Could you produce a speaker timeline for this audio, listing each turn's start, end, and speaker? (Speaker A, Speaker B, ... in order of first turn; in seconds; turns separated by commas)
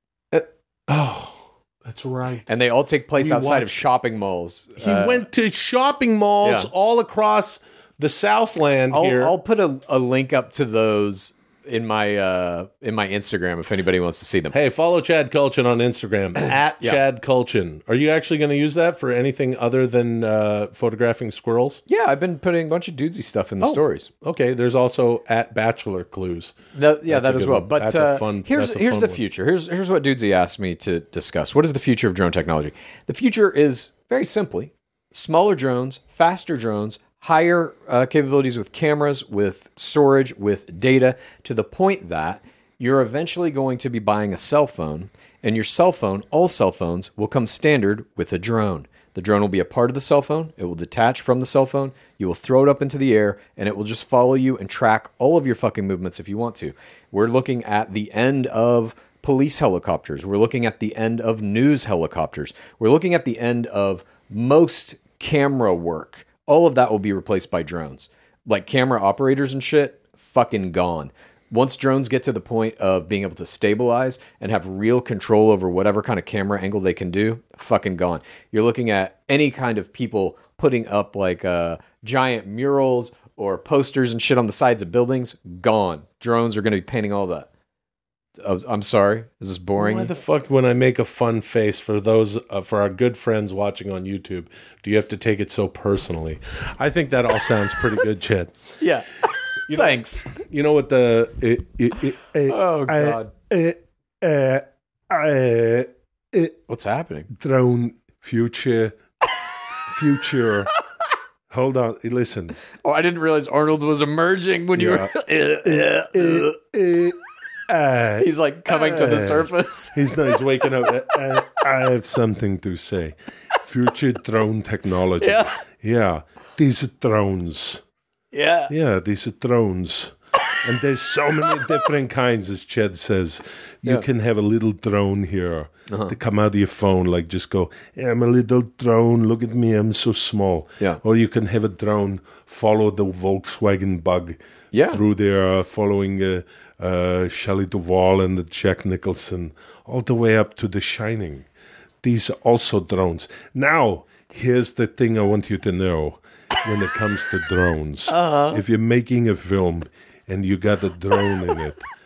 Speaker A: 0.3-2.5, Speaker B: 2.5-5.2, Speaker A: 3.2-3.9, Speaker A: 4.8-9.3, Speaker B: 6.4-6.7, Speaker B: 8.9-14.6, Speaker A: 14.5-21.8, Speaker B: 21.9-24.1, Speaker A: 23.6-29.2, Speaker B: 26.7-87.5, Speaker B: 88.4-90.1, Speaker A: 89.8-98.5, Speaker B: 98.8-100.3, Speaker A: 99.7-106.6, Speaker B: 102.5-103.3, Speaker B: 106.7-107.3, Speaker A: 107.3-109.0, Speaker A: 109.9-110.7, Speaker A: 111.5-112.5, Speaker B: 112.8-116.6, Speaker A: 114.7-117.2, Speaker A: 117.7-127.8, Speaker B: 118.2-120.4, Speaker B: 125.2-125.5, Speaker B: 128.3-128.7, Speaker A: 128.7-151.5, Speaker B: 135.9-136.2, Speaker B: 144.7-145.0, Speaker A: 152.0-161.8, Speaker B: 158.1-158.6